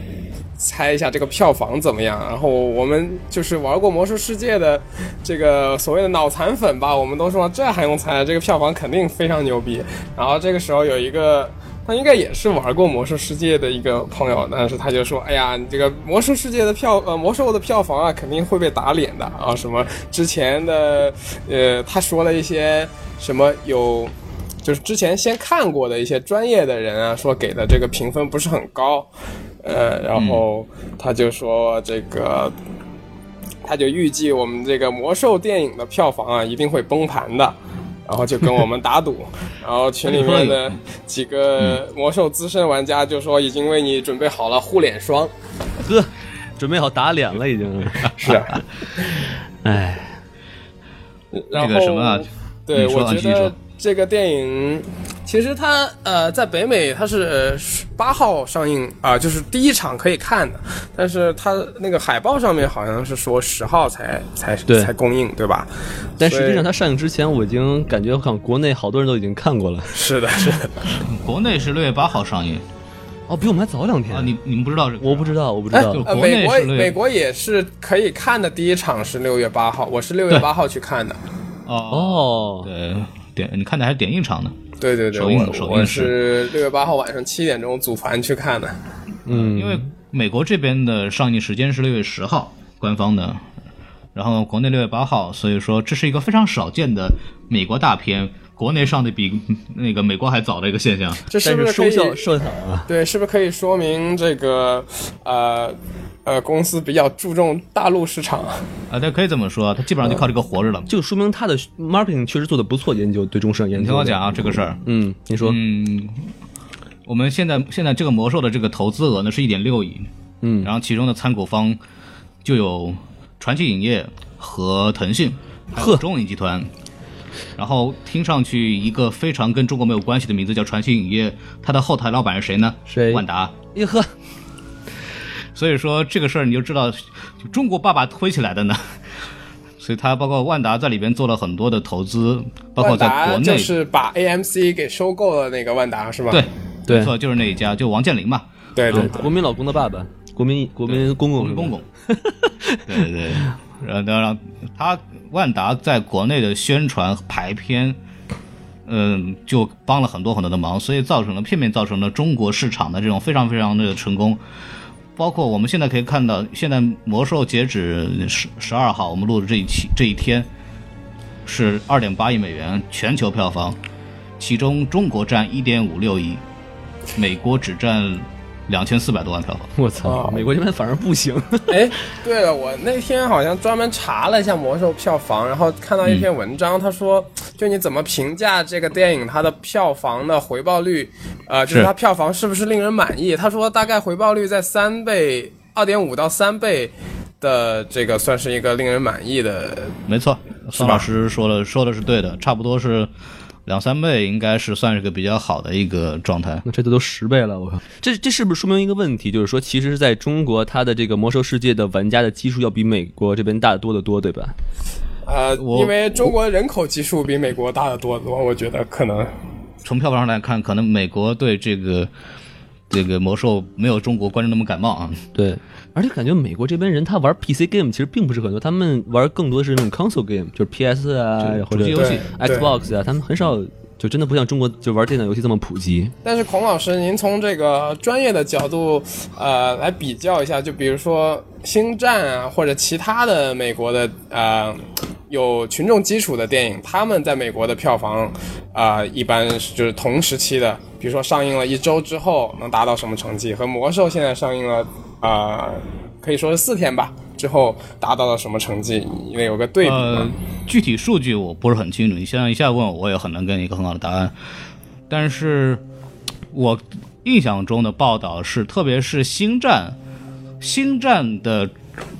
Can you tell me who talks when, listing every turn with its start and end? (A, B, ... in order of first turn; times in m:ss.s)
0:00.6-0:29.1 A
0:29.6-0:32.5 A
0:30.1-0:30.4 B
0:33.6-0:37.5 A
0:38.1-0:45.3 A
0:40.1-0:40.8 B
0:45.8-0:48.6 C
0:48.2-0:48.6 A
0:49.6-0:50.2 C
0:51.3-1:06.7 A
0:51.5-0:53.5 B
1:06.2-1:10.0 C
1:09.9-1:10.9 A
1:11.0-1:12.6 B
1:13.3-1:14.3 C
1:14.1-1:17.0 B
1:15.0-1:16.0 C
1:16.0-1:21.2 A
1:21.7-1:24.6 B
1:21.9-1:22.7 C
1:24.8-1:28.8 A
1:25.1-1:26.2 B
1:29.3-1:29.9 C
1:29.3-1:33.4 B
1:34.1-1:41.2 B
1:41.3-1:42.2 A
1:41.4-1:42.9 C
1:42.9-1:48.6 A
1:48.9-1:50.9 B
1:50.9-1:55.6 C
1:53.8-1:54.8 B
1:55.4-1:56.3 B
1:57.1-2:00.1 B
2:00.4-2:00.7 C
2:00.6-2:01.8 B
2:02.4-2:06.7 B
2:05.8-2:06.0 C
2:07.6-2:13.5 B
2:12.9-2:13.2 C
2:13.8-2:14.1 C
2:15.5-2:19.0 B
2:19.8-2:23.7 B
2:22.8-2:26.4 A
2:26.3-2:29.4 B
2:26.9-2:27.1 C
2:28.8-2:29.3 A
2:28.9-2:33.0 C
2:30.9-2:31.8 B
2:32.9-2:38.0 B
2:38.8-2:44.4 B
2:45.2-2:50.5 B
2:51.4-2:53.8 B
2:54.4-2:56.4 B
2:57.2-2:59.7 B
2:59.8-3:01.8 C
3:00.0-3:00.4 A
3:01.7-3:20.0 A
3:20.1-3:23.1 B
3:20.8-3:21.0 A
3:23.6-3:26.6 B
3:26.6-3:34.5 C
3:35.2-3:39.3 A
3:35.6-3:36.0 B
3:39.8-3:42.1 B
3:42.9-3:45.2 B
3:45.4-3:56.1 C
3:51.4-3:52.2 B
3:51.9-3:52.7 A
3:56.2-4:20.3 A
4:19.8-4:24.4 B
4:25.1-4:25.8 B
4:26.5-4:30.0 B
4:30.6-4:31.7 B